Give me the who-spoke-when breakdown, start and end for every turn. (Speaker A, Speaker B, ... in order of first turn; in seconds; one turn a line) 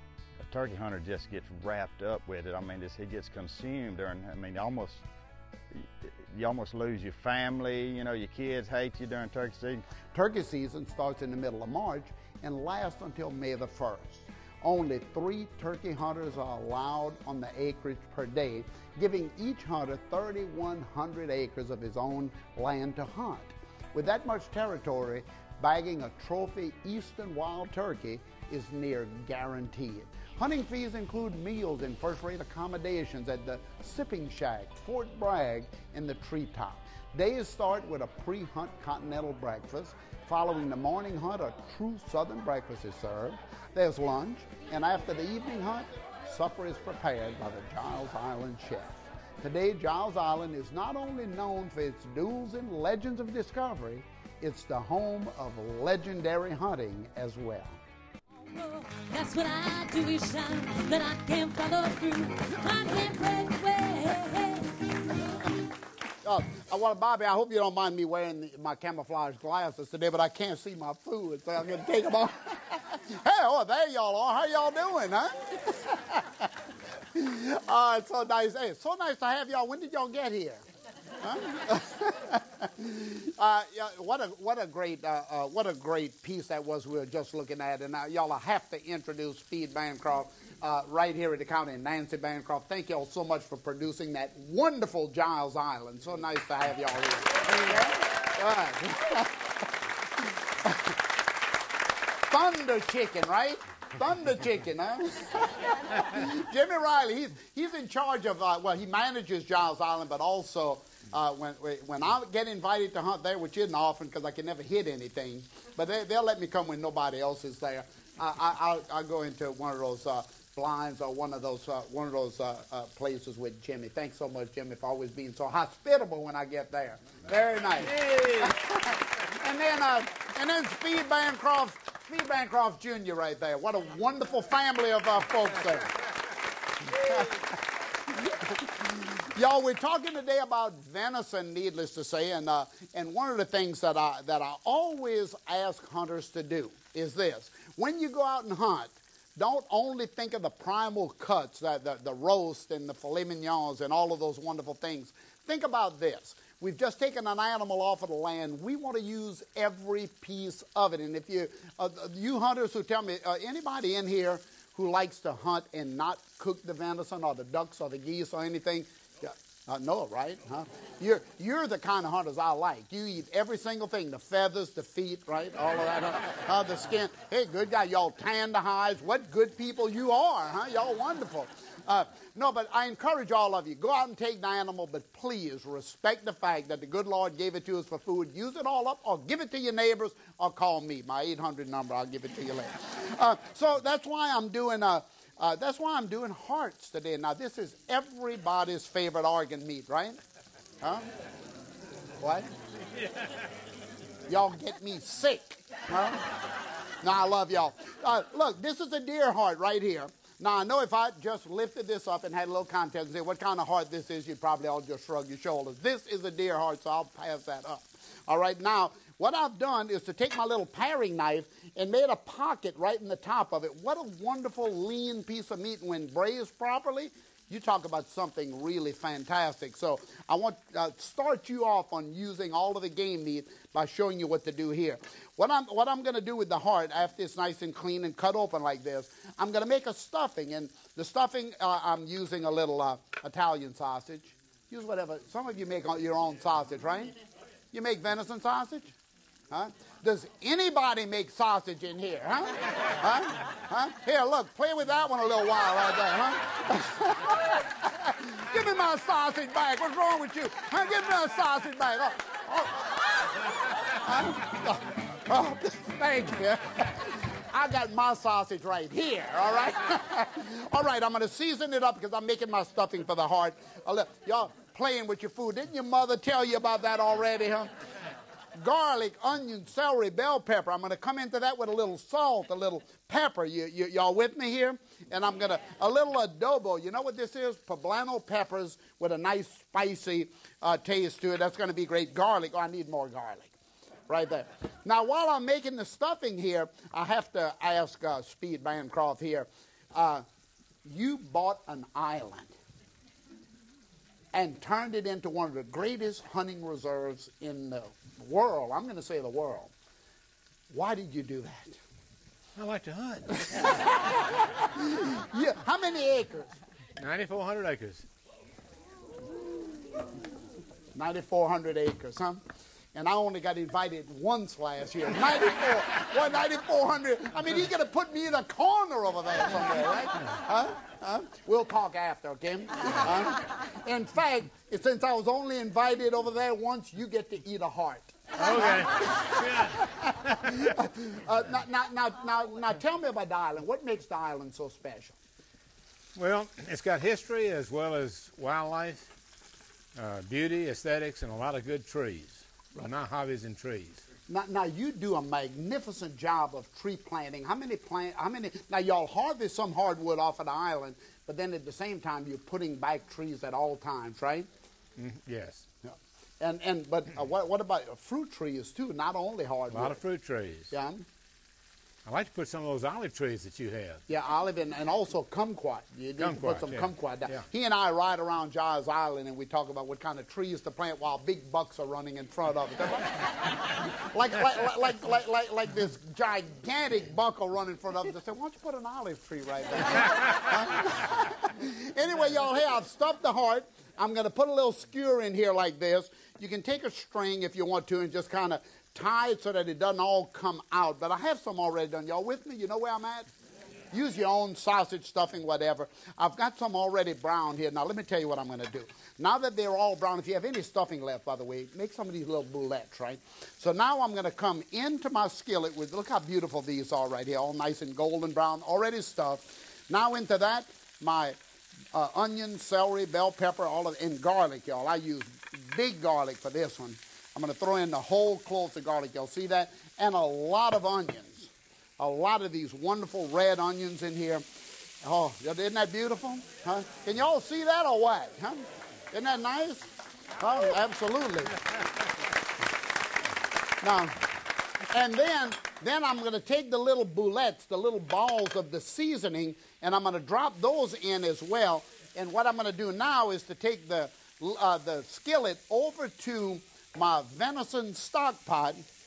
Speaker A: 0.4-5.0
Speaker A: 5.7-9.8
Speaker B: 10.1-57.8
Speaker C: 58.4-64.8
Speaker B: 66.2-76.5
Speaker B: 77.1-80.6
Speaker B: 81.2-99.7
Speaker B: 100.2-101.0
Speaker B: 102.3-136.0
Speaker D: 128.0-128.5
Speaker B: 136.8-200.2
Speaker B: 200.8-201.1
Speaker B: 202.2-202.5
Speaker B: 204.3-206.3
Speaker B: 207.0-247.1
Speaker B: 247.7-248.9
Speaker B: 249.5-277.7
Speaker B: 278.6-293.6
Speaker B: 294.1-300.2
Speaker B: 300.8-302.5
Speaker B: 304.3-309.7
Speaker B: 310.7-311.8
Speaker D: 312.6-314.0
Speaker B: 313.4-316.6
Speaker D: 317.0-318.1
Speaker B: 320.9-322.4
Speaker B: 322.9-345.2
Speaker D: 338.4-339.9
Speaker D: 346.1-349.1
Speaker D: 349.9-354.0
Speaker B: 354.3-364.5
Speaker D: 365.0-365.7
Speaker B: 365.8-370.0
Speaker D: 369.7-370.7
Speaker B: 370.7-371.1
Speaker D: 372.1-374.0
Speaker B: 374.1-403.3
Speaker D: 376.2-377.4
Speaker B: 403.9-421.4
Speaker B: 421.9-434.4
Speaker B: 435.0-441.7
Speaker B: 443.8-444.2
Speaker B: 444.8-458.9